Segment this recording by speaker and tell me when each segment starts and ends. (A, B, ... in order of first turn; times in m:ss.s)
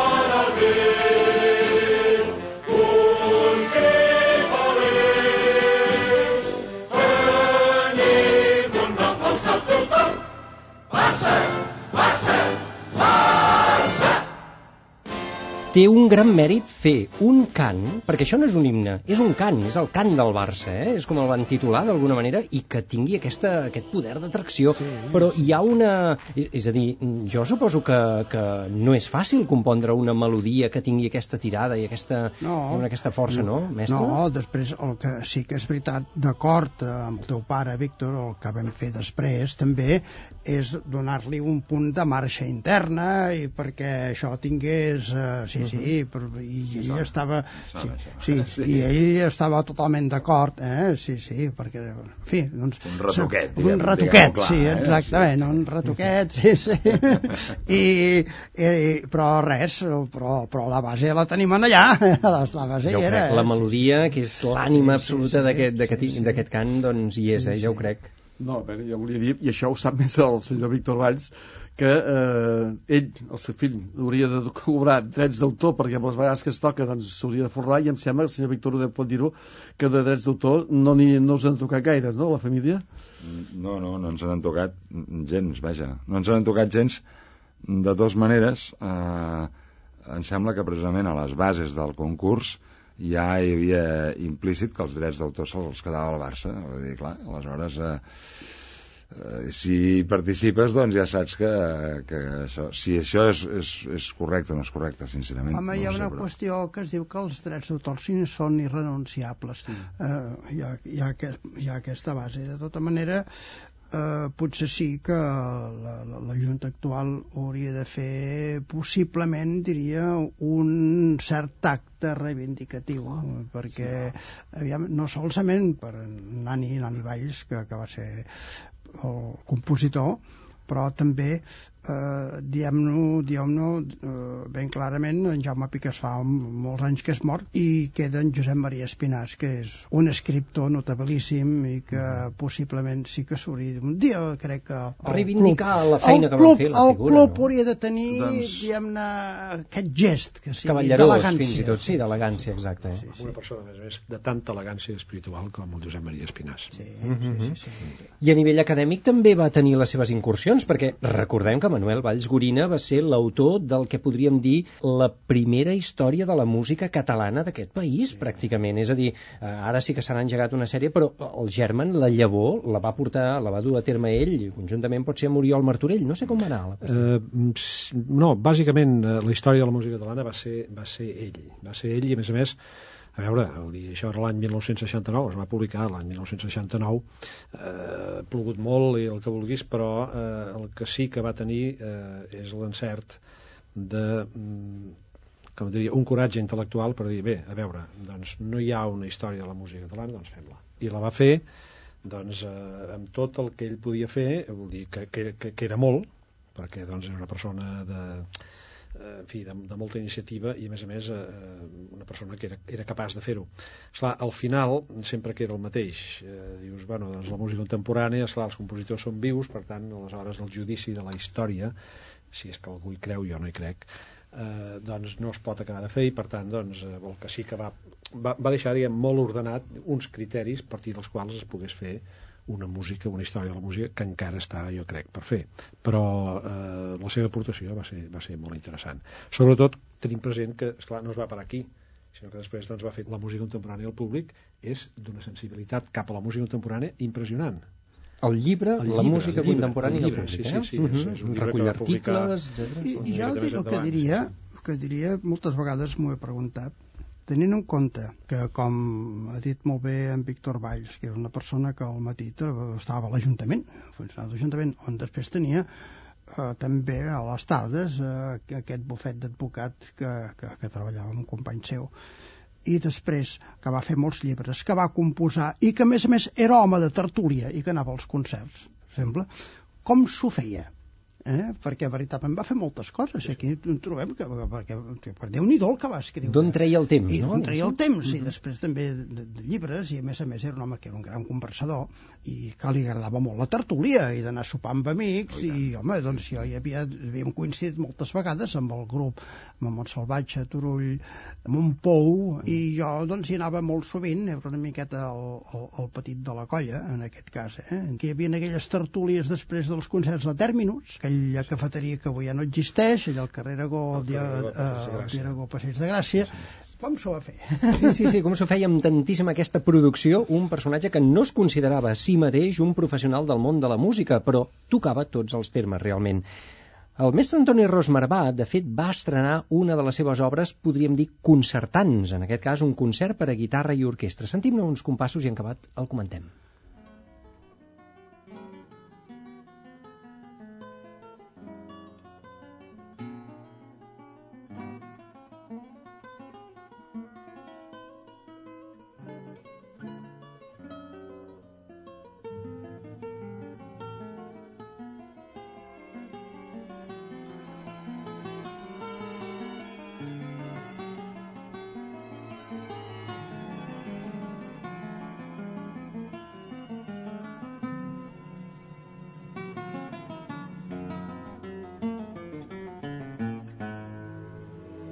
0:15.7-0:34.2 A
0:24.7-0:25.3 B
0:32.4-1:06.5 B
0:46.8-0:47.1 C
0:47.6-0:48.9 C
0:52.8-0:55.3 C
1:02.8-1:08.1 A
1:07.3-1:07.9 B
1:08.4-1:22.8 D
1:23.2-1:27.0 C
1:27.6-1:29.5 C
1:30.1-1:38.6 C
1:39.1-1:46.2 C
1:45.5-1:53.2 B
1:53.9-2:32.1 B
2:25.0-2:27.5 A
2:28.1-2:28.6 C
2:30.6-2:33.0 A
2:33.0-2:36.8 E
2:33.0-2:33.3 B
2:36.7-2:38.0 B
2:37.0-2:37.6 A
2:38.2-2:57.1 A
2:56.8-3:02.6 E
3:03.2-3:13.2 E
3:13.7-3:15.0 E
3:15.6-3:21.4 E
3:22.0-3:28.3 E
3:28.9-3:41.7 E
3:42.3-4:07.6 E
4:08.2-4:13.0 A
4:08.8-4:14.3 E
4:12.8-4:16.7 B
4:17.3-4:25.7 B
4:26.3-4:31.9 B
4:32.6-4:39.3 B
4:39.8-4:40.7 B
4:41.2-5:18.1 B
4:46.2-4:47.8 A
5:13.9-5:15.3 E
5:17.7-5:26.2 A
5:27.0-5:36.3 A